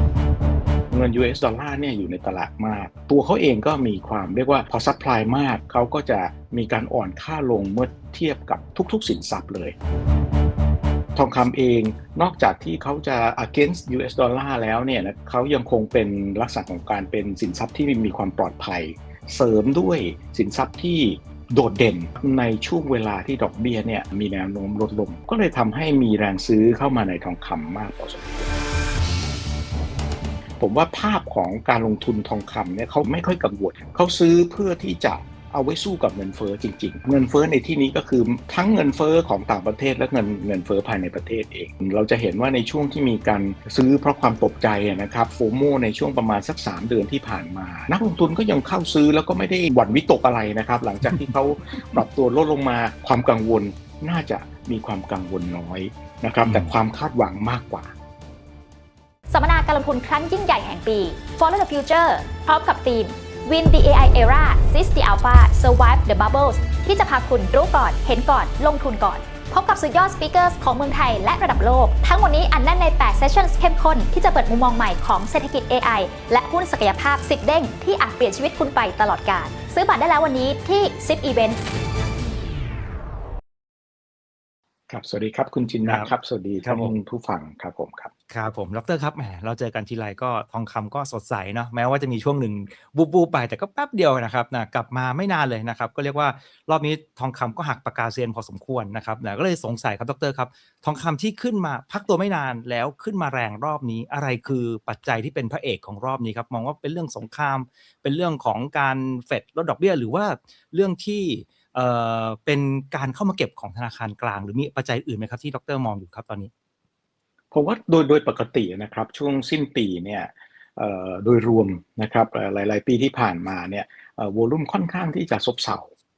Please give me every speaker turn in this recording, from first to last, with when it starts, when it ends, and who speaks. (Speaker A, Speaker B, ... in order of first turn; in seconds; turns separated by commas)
Speaker A: 0.9-9.7, Speaker A: 11.1-28.5, Speaker A: 30.6-57.9, Speaker B: 56.4-56.7, Speaker C: 59.3-81.6, Speaker A: 84.9-88.1, Speaker B: 85.8-86.1, Speaker B: 86.6-86.9, Speaker B: 88.3-116.5, Speaker A: 117.5-125.9